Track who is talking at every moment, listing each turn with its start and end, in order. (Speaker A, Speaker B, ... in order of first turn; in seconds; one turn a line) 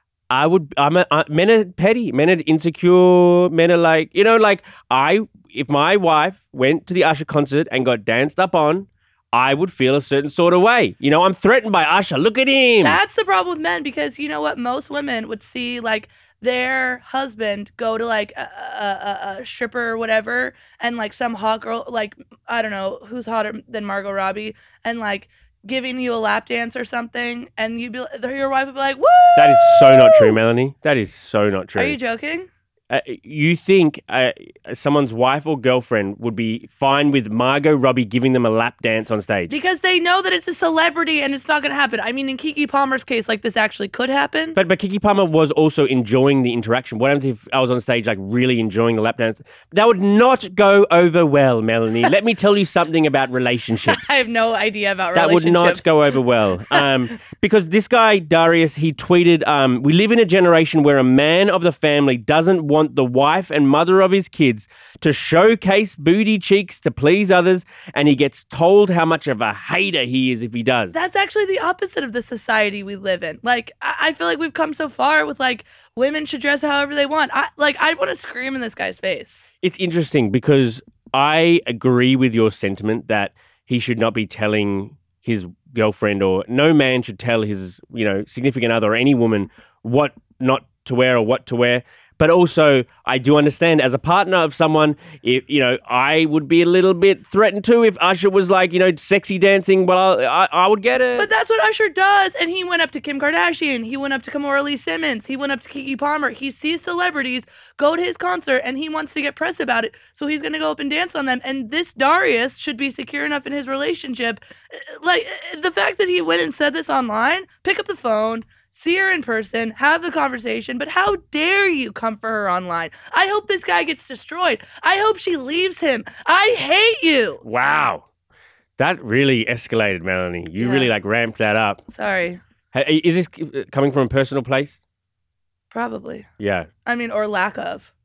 Speaker A: 0.3-13.0
Speaker B: 12.8-30.4
Speaker A: 29.4-32.0
Speaker B: 31.8-32.5
Speaker A: 32.9-39.5
Speaker B: 39.5-44.6
Speaker A: 44.5-54.2
Speaker B: 53.8-55.9
Speaker A: 55.1-71.0
Speaker B: 70.9-79.4
Speaker A: 79.6-101.3
Speaker B: 101.2-127.4
Speaker A: 127.4-128.1
Speaker A: 128.8-131.8
Speaker B: 130.6-130.9
Speaker B: 131.9-132.4
Speaker A: 132.7-134.8
Speaker B: 135.7-136.3
Speaker A: 136.4-136.7
Speaker B: 136.8-137.9